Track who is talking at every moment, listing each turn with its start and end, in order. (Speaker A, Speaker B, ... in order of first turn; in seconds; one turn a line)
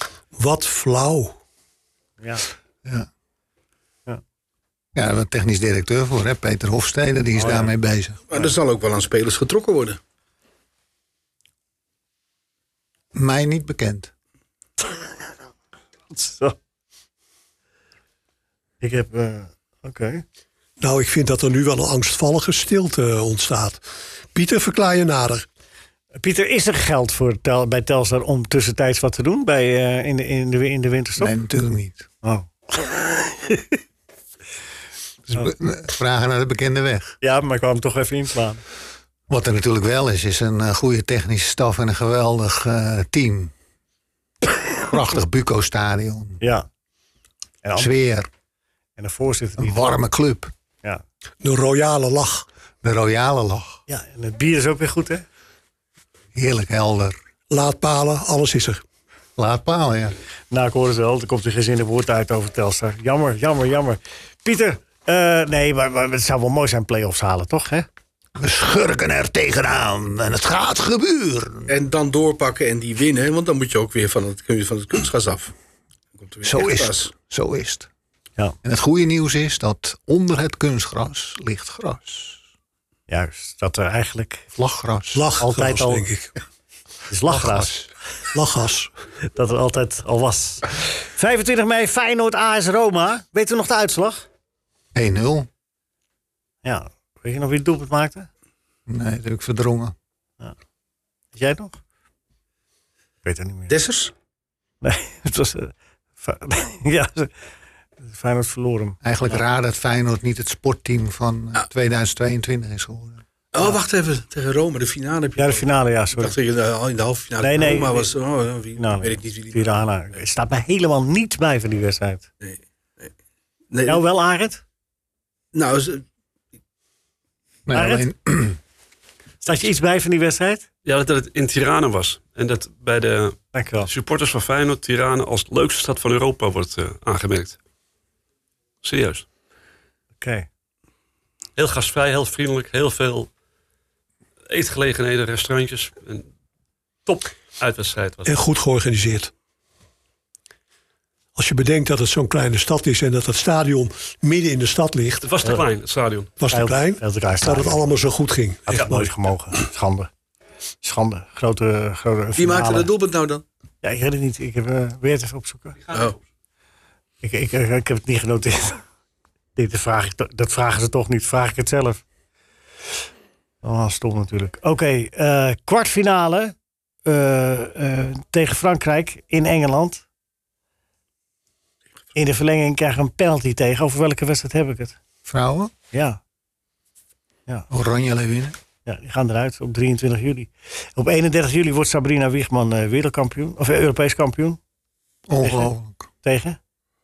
Speaker A: 0.3-1.4
Speaker B: 4.9-8.5
Speaker C: 7.4-7.7
Speaker D: 8.3-10.0
Speaker B: 13.1-14.1
Speaker C: 16.1-16.6
Speaker C: 18.8-20.2
Speaker A: 20.8-23.8
Speaker A: 24.3-25.4
Speaker C: 26.2-31.3
Speaker B: 31.2-32.1
Speaker C: 32.2-33.8
Speaker B: 35.3-37.1
Speaker C: 37.2-38.6
Speaker B: 39.3-43.5
Speaker B: 44.8-46.4
Speaker C: 46.4-46.7
Speaker C: 47.6-47.9
Speaker B: 47.8-48.3
Speaker C: 49.0-50.0
Speaker B: 49.6-50.5
Speaker A: 51.4-52.5
Speaker B: 52.8-53.8
Speaker C: 53.9-55.2
Speaker B: 56.3-57.1
Speaker A: 57.5-58.8
Speaker B: 59.4-60.1
Speaker C: 60.5-67.9
Speaker B: 68.3-71.7
Speaker D: 71.7-75.5
Speaker D: 76.2-77.1
Speaker B: 76.4-77.9
Speaker B: 78.6-82.4
Speaker C: 83.1-84.5
Speaker B: 84.5-85.3
Speaker A: 85.1-86.3
Speaker C: 85.4-86.1
Speaker C: 87.1-87.7
Speaker A: 88.3-88.9
Speaker C: 89.3-94.2
Speaker B: 94.9-95.5
Speaker C: 96.6-98.3
Speaker B: 98.9-99.9
Speaker C: 101.3-101.8
Speaker C: 103.2-103.7
Speaker D: 103.7-104.1
Speaker C: 104.8-107.3
Speaker C: 108.0-109.3
Speaker B: 109.0-113.2
Speaker D: 113.5-119.7
Speaker C: 115.4-116.3
Speaker C: 117.4-118.1
Speaker C: 118.8-122.2
Speaker D: 122.4-123.1
Speaker D: 123.7-124.0
Speaker C: 123.8-124.6
Speaker D: 125.5-126.0
Speaker B: 127.7-128.6
Speaker C: 127.7-128.1
Speaker C: 129.4-130.7
Speaker E: 130.8-137.6
Speaker C: 133.5-133.9
Speaker E: 138.8-139.2
Speaker C: 140.2-140.5
Speaker E: 141.6-143.3
Speaker E: 144.5-146.3
Speaker E: 147.1-148.4
Speaker A: 148.2-149.3
Speaker A: 151.3-155.2
Speaker E: 155.2-156.3
Speaker A: 156.4-159.1
Speaker C: 156.5-157.8
Speaker C: 158.7-160.1
Speaker C: 160.8-162.9
Speaker D: 162.3-163.4
Speaker C: 163.8-165.8
Speaker E: 165.8-166.2
Speaker C: 167.2-168.8
Speaker C: 169.6-172.0
Speaker C: 173.6-176.5
Speaker C: 177.1-180.0
Speaker C: 182.1-185.0
Speaker B: 185.2-185.7
Speaker C: 185.9-186.2
Speaker B: 187.7-188.6
Speaker C: 188.8-194.6
Speaker B: 195.3-196.1
Speaker C: 195.4-195.7
Speaker C: 196.2-196.6